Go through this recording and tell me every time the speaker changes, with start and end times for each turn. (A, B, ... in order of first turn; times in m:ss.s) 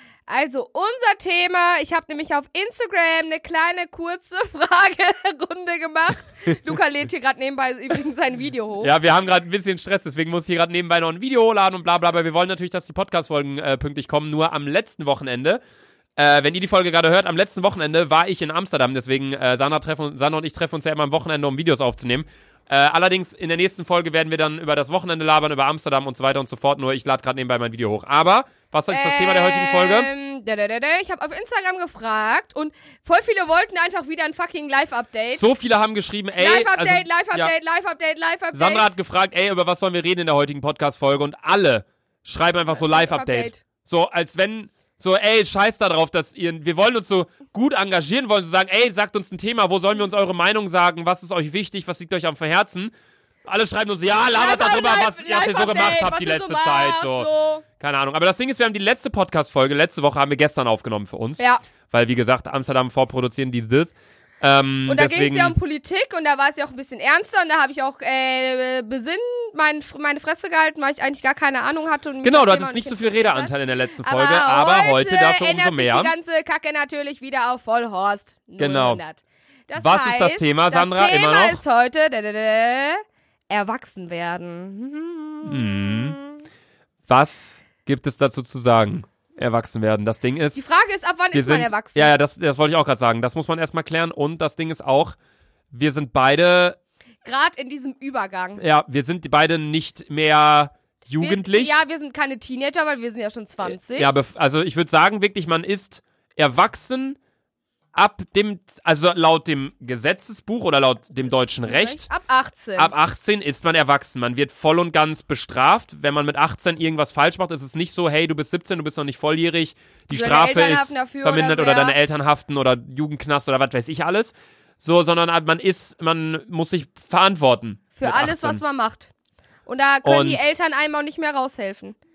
0:00.3-0:08.9 A
0:08.8-0:15.6 B
0:16.2-0:30.1 B
0:28.9-0:35.5 A
0:35.3-0:37.5 B
0:36.4-0:38.9 A
0:38.5-0:52.9 B
0:42.7-0:43.6 A
0:53.4-1:05.6 B
0:54.3-0:57.6 A
1:04.8-1:26.4 A
1:12.2-1:16.1 B
1:18.6-1:19.0 B
1:19.8-1:21.6 B
1:25.4-1:26.2 B
1:27.1-1:30.6 B
1:30.5-1:32.1 A
1:31.3-1:35.2 B
1:35.7-1:36.8 B
1:37.2-1:38.6 A
1:38.6-1:41.8 B
1:41.2-1:44.2 A
1:43.6-1:47.2 B
1:47.9-1:52.1 B
1:51.4-1:52.9 A
1:52.8-2:08.6 B
2:00.1-2:02.0 A
2:08.0-2:09.1 A
2:09.7-2:12.0 A
2:10.0-2:10.5 B